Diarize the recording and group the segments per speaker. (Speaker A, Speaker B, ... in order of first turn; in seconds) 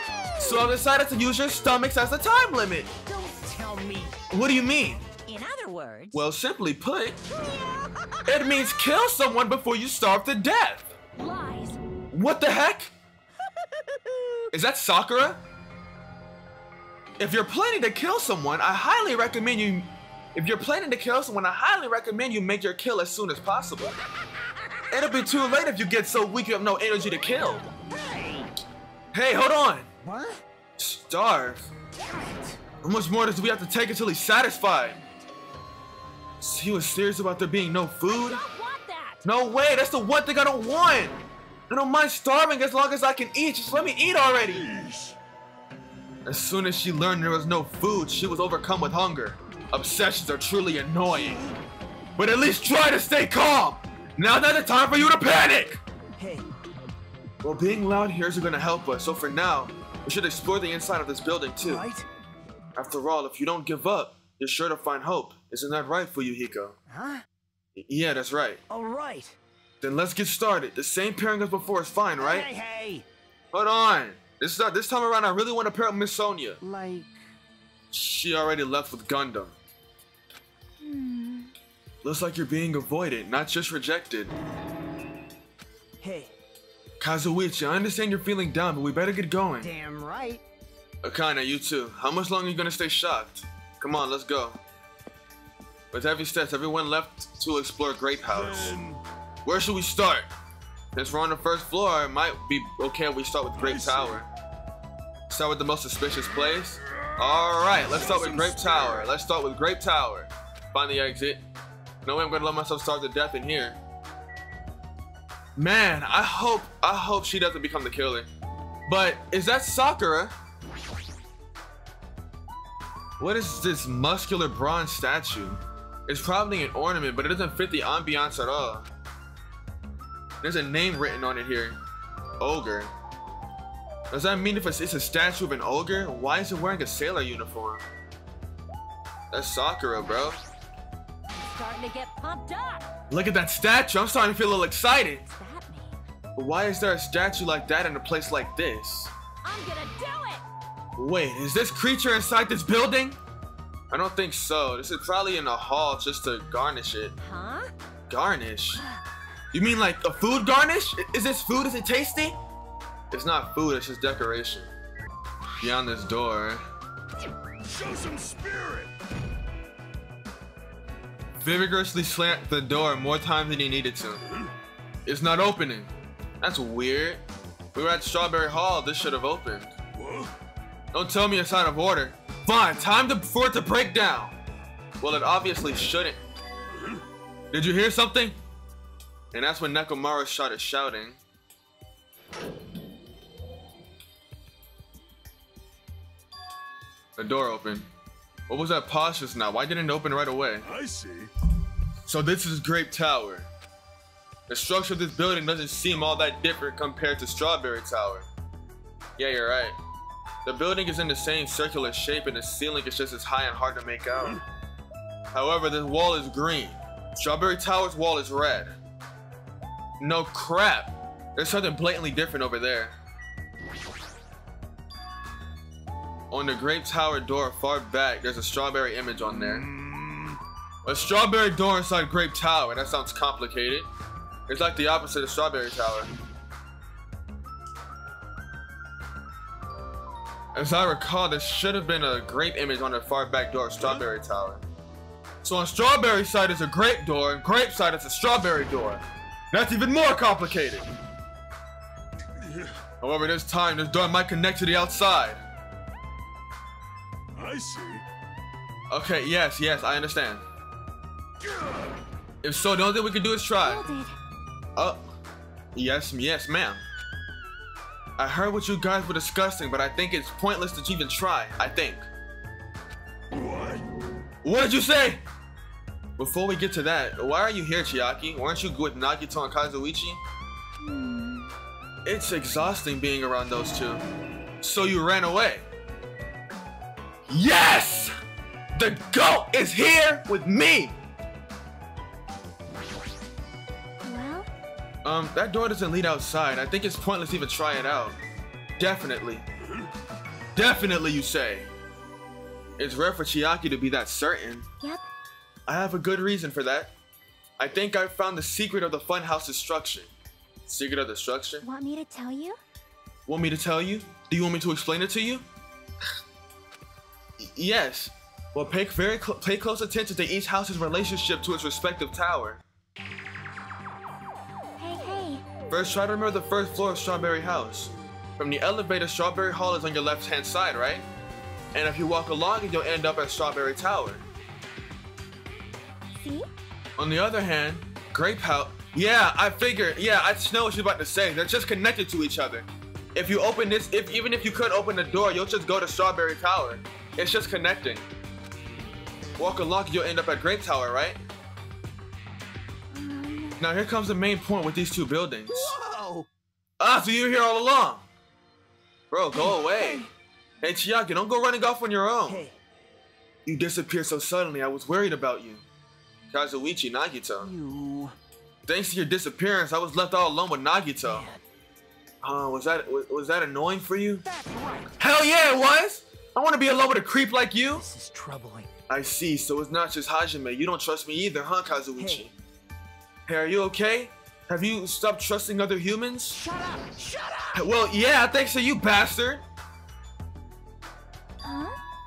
Speaker A: 0.4-2.9, 4.3-5.1, 6.1-7.2, 8.3-10.9, 12.1-12.9, 14.5-15.4, 17.2-24.0, 24.9-27.7, 29.1-29.9, 30.8-31.7, 32.8-35.0, 36.4-38.4, 39.2-41.2, 41.7-44.7, 46.3-51.5, 52.2-55.8, 57.4-61.9, 62.8-66.8, 67.8-68.6, 69.8-72.5, 73.5-76.6, 77.9-79.5, 82.0-84.3, 87.0-89.7, 91.0-94.6, 95.9-98.8, 99.5-100.3, 101.0-104.3, 105.3-111.4, 112.0-113.8, 115.6-118.3, 118.9-120.3, 123.2-128.9, 130.4-131.8, 132.4-132.9, 134.1-137.8, 139.3-140.4, 143.1-145.2, 146.4-149.1, 151.0-153.2, 153.9-157.2, 158.1-158.8, 159.5-162.4, 163.1-164.7, 165.6-166.6, 171.4-174.2, 175.1-175.9, 176.4-177.2, 177.7-179.7, 180.9-184.4, 185.0-186.2, 187.5-188.4, 189.3-191.2, 197.2-197.9, 198.5-200.7, 202.1-203.5, 204.5-208.3, 209.2-209.8, 210.4-214.4, 215.3-218.7, 220.0-223.0, 226.3-229.7, 230.8-233.9, 234.5-236.1, 240.5-244.6, 245.4-250.9, 253.0-255.4, 258.9-260.4, 262.4-263.8, 264.8-265.1, 265.8-266.8, 268.2-272.1, 274.4-275.2, 276.2-280.2, 282.1-284.0, 284.6-285.6, 287.3-288.1, 288.8-291.0, 295.0-298.2, 298.8-299.4, 300.6-301.7, 302.8-304.7, 305.7-306.9, 307.6-310.1, 310.7-311.6, 313.3-315.4, 317.4-322.6, 325.7-331.1, 331.7-334.2, 337.0-348.1, 349.4-351.2, 353.6-355.8, 356.8-358.1, 359.1-360.1, 360.6-362.5, 363.5-365.6, 366.3-367.5, 368.7-371.3, 372.2-374.2, 375.0-377.9, 378.9-382.3, 383.3-386.4, 387.5-389.4
Speaker B: 3.1-4.2, 5.3-6.2, 7.3-8.2, 14.1-14.3, 27.9-28.5, 30.0-30.4, 32.0-32.6, 56.2-56.5, 61.6-62.1, 66.9-67.2, 68.7-69.4, 72.2-73.0, 76.6-77.1, 86.0-86.3, 89.6-90.4, 355.5-356.3, 362.3-362.6, 367.4-368.1, 371.0-371.4, 374.3-374.9, 377.7-378.7, 382.0-382.3, 386.4-387.6
Speaker C: 11.2-11.8, 38.1-39.2, 80.8-81.5, 141.4-142.9, 145.3-146.0, 149.4-150.4, 157.2-157.7, 263.6-264.1, 280.8-281.5, 294.0-294.5, 311.6-312.6, 324.8-325.4, 336.1-336.5, 352.9-353.6, 359.3-360.1, 391.4-391.8
Speaker D: 44.5-45.2, 98.3-99.0, 103.5-104.2, 107.7-109.1, 167.7-168.9, 180.0-180.3, 200.6-201.3, 229.4-230.4, 252.4-252.7, 257.4-258.0, 261.4-262.0, 273.3-273.8